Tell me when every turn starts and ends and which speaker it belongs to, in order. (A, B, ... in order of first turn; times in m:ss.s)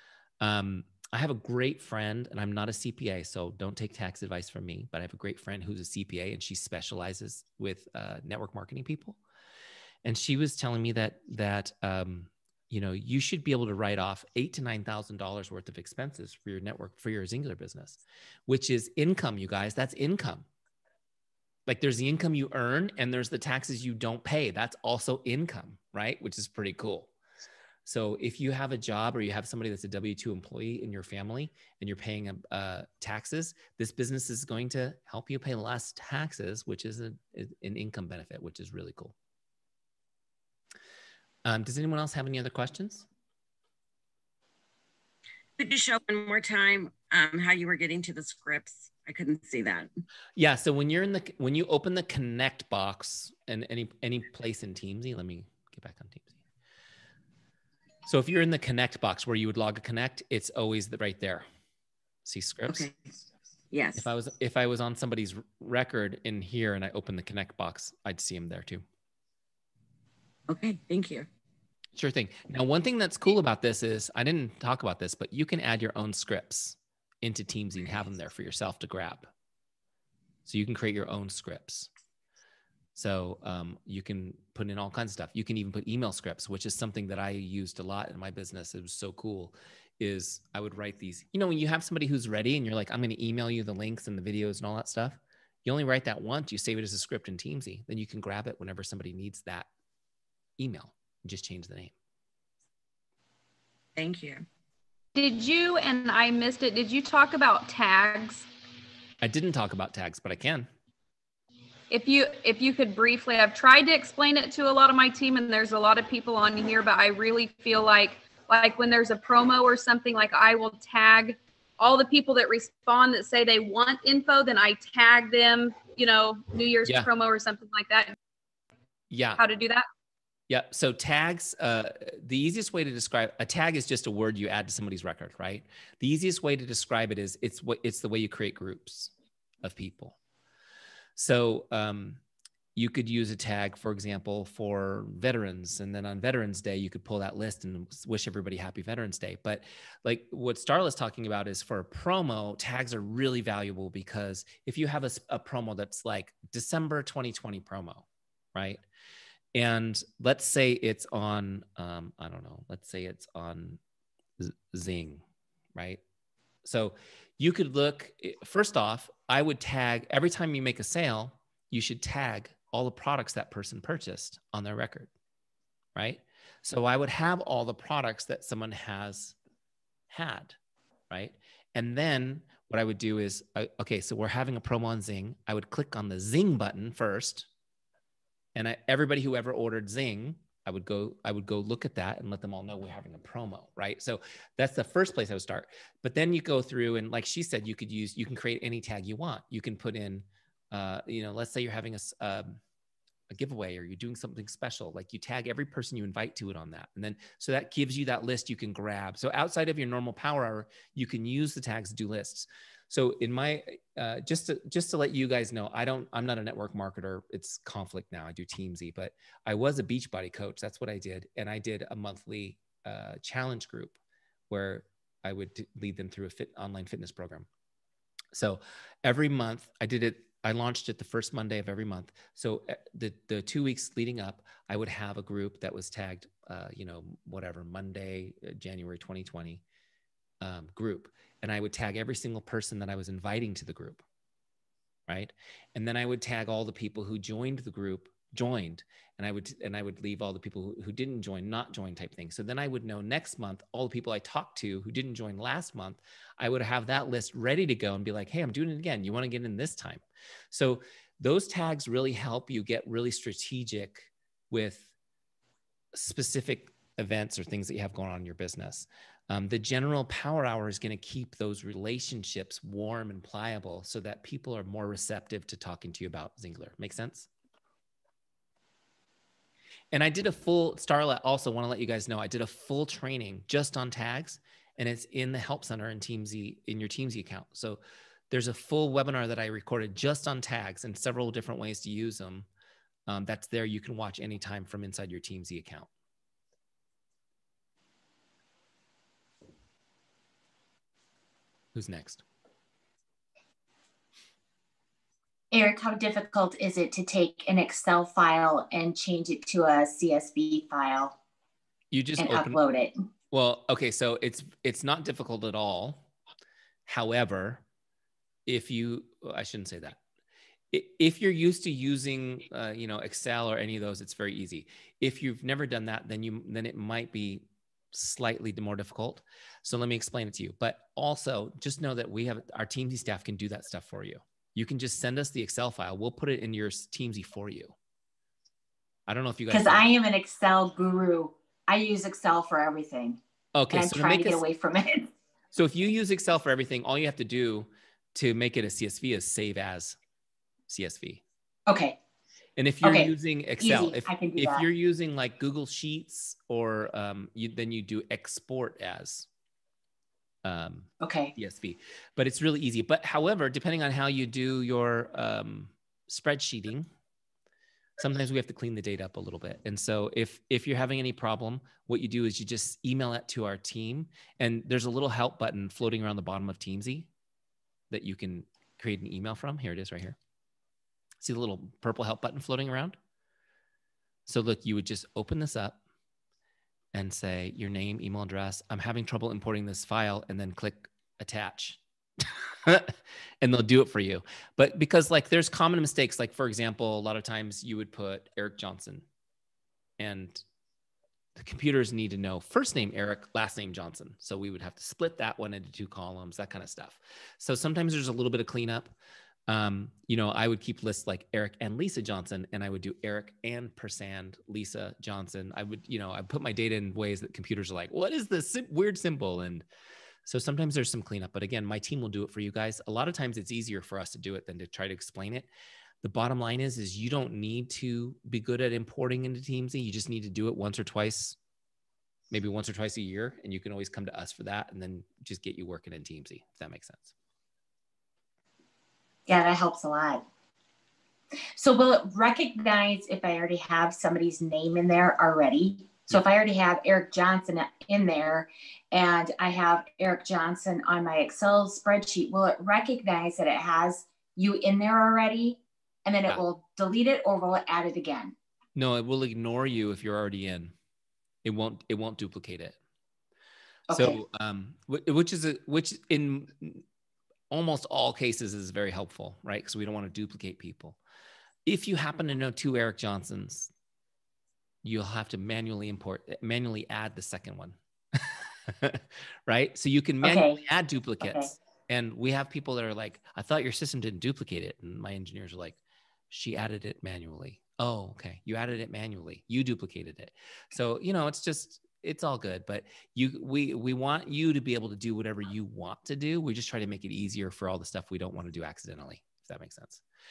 0:00.4-0:09.2 A
0:10.0-0:20.5 A
0:21.7-0:27.1 A
0:27.8-0:39.1 A
0:41.4-0:43.1 A
0:45.6-0:49.9 B
0:50.4-0:56.3 A
0:58.0-1:01.4 A
1:02.2-1:02.9 A
1:02.7-1:02.9 B
1:03.7-1:04.1 B
1:04.0-1:08.8 A
1:10.5-1:11.3 B
1:12.0-1:19.3 A
1:20.4-1:21.9 A
1:23.0-1:39.7 A
1:40.6-1:41.9 A
1:44.0-1:44.4 B
1:45.1-1:48.5 C
1:49.2-1:50.7 A
1:51.9-2:08.2 C
2:09.1-2:09.4 A
2:09.4-2:09.8 C
2:10.5-2:20.2 A
2:21.2-2:22.2 A
2:22.7-2:38.8 A
2:39.5-2:43.8 A
2:44.4-2:45.2 A
2:45.7-2:46.0 A
2:46.6-2:55.1 A
2:56.0-2:59.3 A
3:00.1-3:00.6 A
3:01.1-3:07.5 A
3:08.5-3:22.6 A
3:23.3-3:44.0 A
3:44.5-3:47.5 A
3:48.3-3:59.6 A
4:00.4-4:04.0 A
4:05.1-4:24.9 A
4:25.9-4:37.3 A
4:39.9-4:52.5 A
4:53.1-4:55.9 A
5:01.7-5:02.2 A
5:05.5-5:11.1 D
5:11.9-5:12.6 A
5:12.2-5:12.9 D
5:13.3-5:16.1 A
5:16.8-5:17.6 A
5:18.4-5:20.0 A
5:20.7-5:37.8 A
5:39.1-5:39.9 A
5:39.5-5:43.2 D
5:43.5-5:44.4 A
5:43.7-5:45.1 D
5:45.5-5:50.0 A
5:50.7-5:51.2 A
5:51.7-5:52.0 D
5:52.6-5:59.3 A
5:52.8-5:54.6 D
6:00.4-6:06.9 A
6:01.0-6:01.3 D
6:08.0-6:17.1 A
6:17.9-6:20.2 A
6:21.2-6:23.0 A
6:24.2-6:25.8 A
6:26.9-6:39.0 A
6:40.0-6:40.4 A
6:41.4-6:48.9 A
6:49.5-6:59.6 A
7:00.2-7:05.5 A
7:06.0-7:11.4 A
7:12.3-7:17.1 A
7:19.3-7:20.2 D
7:21.6-7:38.3 D
7:38.7-7:40.7 A
7:41.4-7:42.8 A
7:43.9-7:44.2 D
7:43.9-7:46.8 A
7:47.5-7:51.0 A
7:51.6-7:53.7 A
7:54.8-8:05.8 A
8:00.2-8:00.6 D
8:01.2-8:01.5 D
8:06.3-8:20.0 A